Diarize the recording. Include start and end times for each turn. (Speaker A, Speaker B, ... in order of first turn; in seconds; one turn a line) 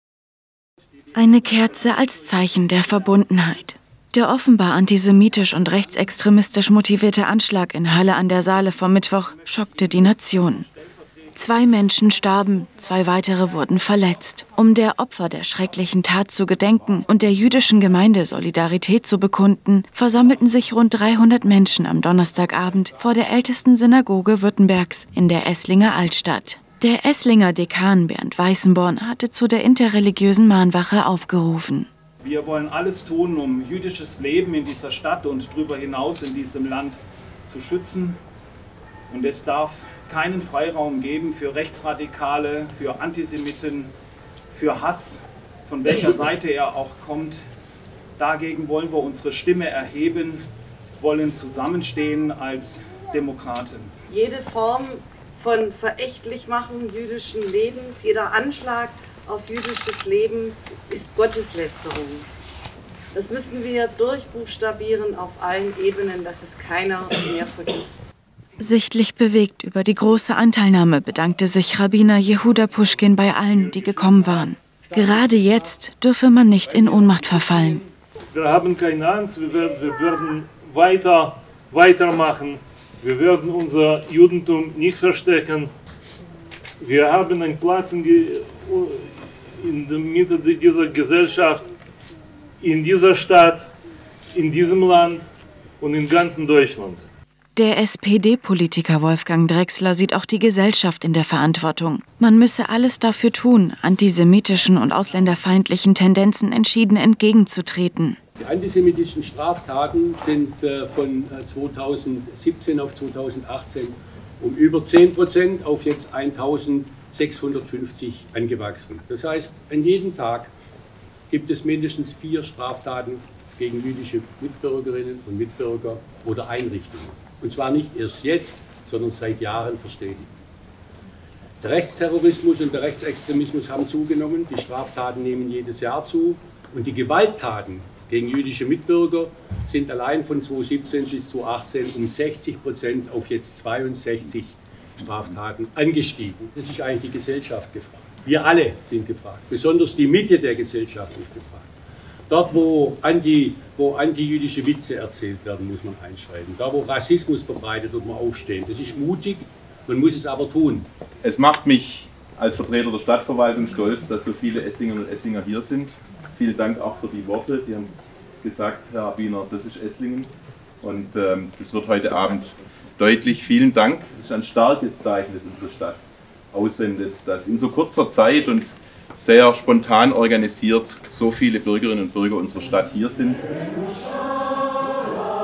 Speaker A: 1.1-10.7
Speaker A: 11.3-31.9
Speaker B: 32.2-38.2
Speaker B: 39.1-43.9
Speaker B: 44.5-47.4
Speaker B: 48.2-50.4
Speaker B: 51.0-53.9
Speaker C: 54.1-62.3
Speaker C: 63.1-68.1
Speaker A: 68.6-77.8
Speaker D: 78.3-85.7
Speaker D: 86.8-91.7
Speaker D: 92.6-93.7
Speaker D: 94.3-95.2
Speaker D: 95.8-97.0
Speaker A: 97.5-108.2
Speaker E: 108.4-120.5
Speaker E: 121.3-130.3
Speaker E: 131.6-151.7
Speaker E: 152.3-160.9
Speaker F: 161.2-170.3
Speaker F: 170.8-183.4